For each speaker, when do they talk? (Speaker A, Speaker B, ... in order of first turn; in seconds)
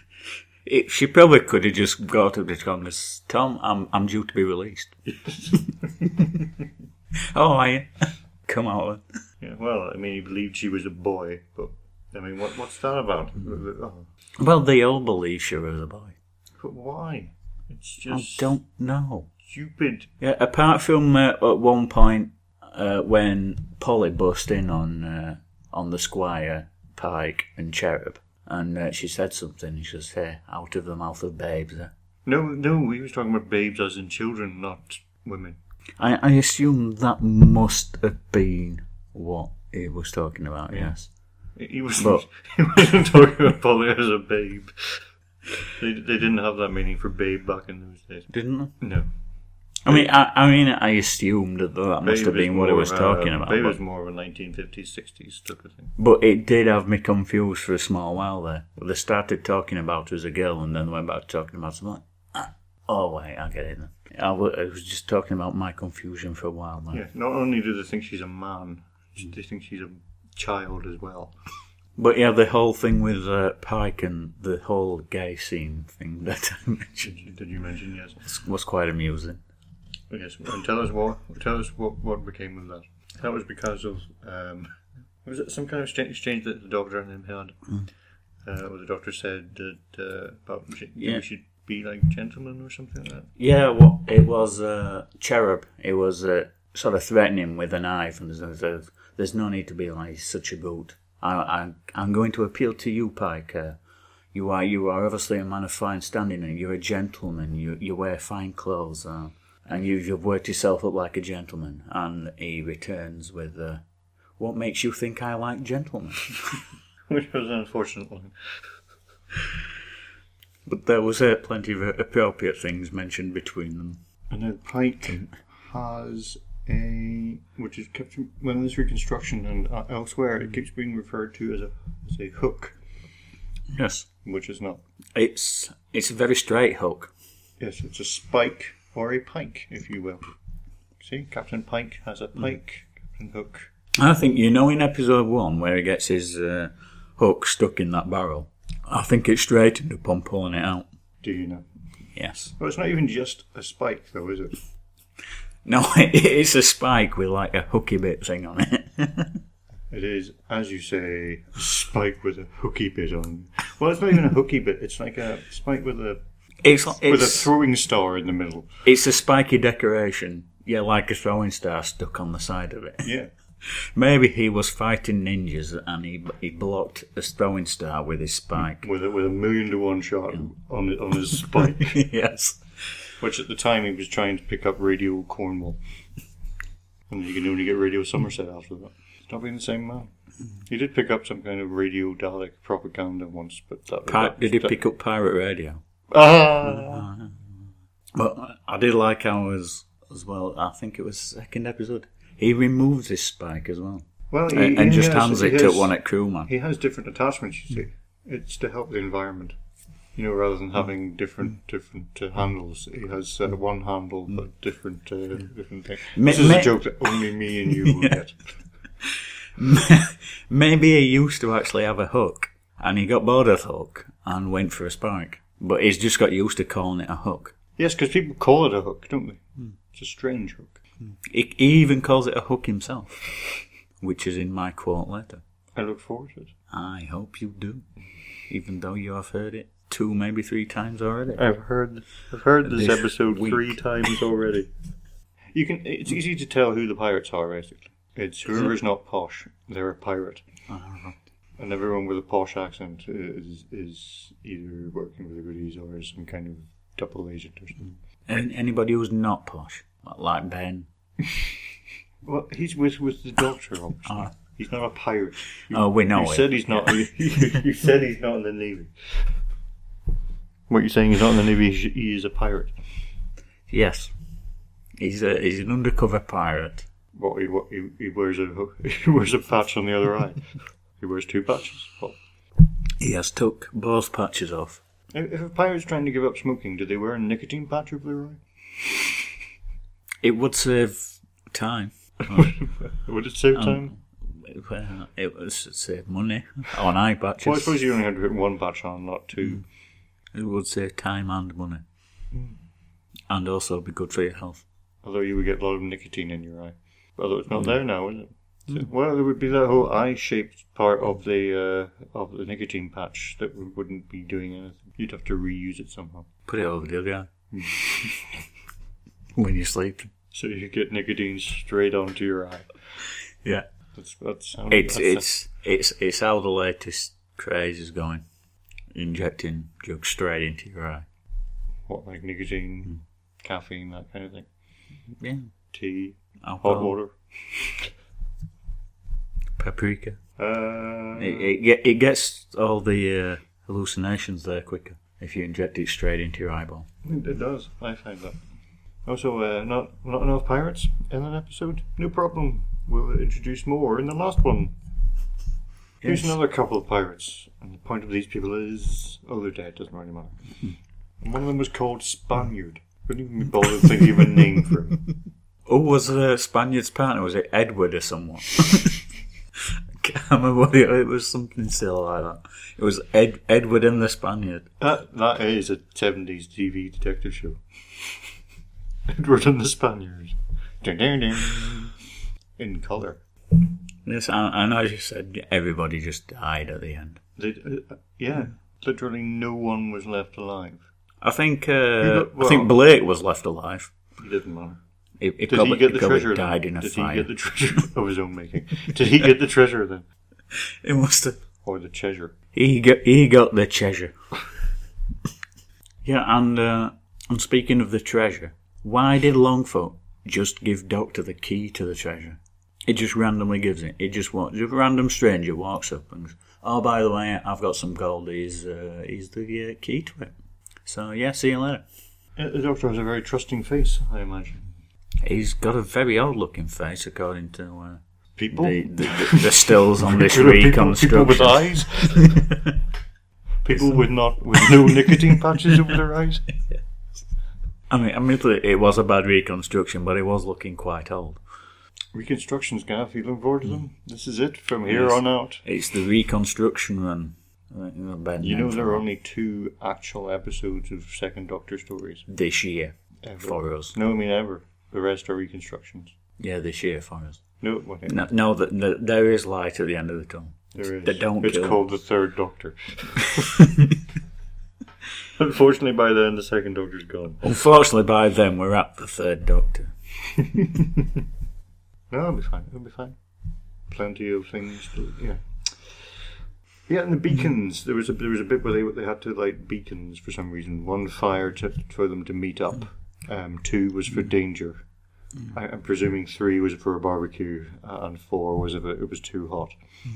Speaker A: 0.7-4.9, 7.3-9.0, 14.4-16.2, 18.1-19.3, 20.2-31.9, 36.0-41.1, 42.0-42.2, 48.3-48.8, 49.9-53.8, 56.0-67.0, 72.0-77.2, 78.2-79.4, 91.0-91.2, 93.4-103.8, 104.3-113.8, 114.4-116.4, 120.7-124.0, 133.7-134.1, 135.2-137.1, 144.0-150.9, 152.2-152.5, 155.7-159.4, 166.6-167.5, 168.8-173.1, 173.7-178.9, 181.7-182.6, 194.1-195.8, 196.7-197.4, 198.2-206.5, 216.1-217.2, 217.8-218.2, 219.0-227.5, 231.2-235.4, 236.7-237.9, 238.5-241.4, 242.6-243.8, 250.7-251.2, 258.3-260.9, 264.1-264.3, 265.7-267.0, 273.7-274.1, 275.0-276.9, 283.0-284.8, 290.2-292.6, 293.5-297.8, 300.3-301.8, 303.3-304.6, 316.5-317.3, 319.4-320.1, 324.7-328.2, 328.9-331.1, 335.2-335.5, 336.4-336.9, 339.6-340.2, 341.2-346.9, 365.7-369.0, 369.6-374.7, 384.1-387.2, 391.2-393.9, 395.2-397.3, 400.5-401.4, 402.5-404.1, 406.0-420.3, 420.9-421.8, 425.2-432.7, 437.9-441.4, 444.9-449.0, 452.3-454.0, 456.4-457.4, 458.1-461.8, 463.4-463.9, 467.4-469.9
Speaker B: 5.1-5.9, 9.4-14.1, 16.6-18.5, 19.4-20.1, 32.2-35.6, 40.7-41.0, 41.6-45.0, 45.8-49.1, 52.0-55.9, 66.9-71.3, 77.0-78.2, 80.1-87.6, 88.5-93.3, 117.1-118.3, 124.3-132.8, 134.2-134.8, 137.6-140.3, 141.0-143.7, 151.2-151.7, 152.6-154.6, 159.9-166.2, 167.0-168.7, 173.0-173.3, 178.8-182.0, 183.2-185.8, 187.1-190.1, 190.7-194.8, 196.1-197.1, 204.3-205.9, 206.5-209.6, 210.2-218.5, 227.8-230.8, 235.8-236.5, 241.3-244.7, 245.5-250.4, 251.6-257.8, 262.2-269.3, 270.7-272.7, 277.1-280.4, 281.0-282.2, 285.1-288.4, 292.3-293.9, 297.4-299.6, 302.3-302.6, 305.0-316.3, 317.5-318.2, 320.3-322.7, 324.0-325.3, 331.9-334.5, 335.7-337.9, 340.4-341.5, 347.0-348.4, 349.1-354.8, 356.0-360.5, 361.2-365.0, 374.8-378.1, 379.1-382.0, 382.6-383.2, 387.4-390.8, 392.0-392.7, 394.2-394.8, 395.4-400.1, 401.6-402.4, 422.4-424.7, 428.4-432.5, 433.6-436.5, 442.1-445.6, 448.4-452.3, 453.2-456.1, 457.6-458.3, 460.7-463.4, 465.4-467.4, 470.5-471.2, 472.1-473.2, 473.9-476.3, 476.9-484.8, 485.5-489.8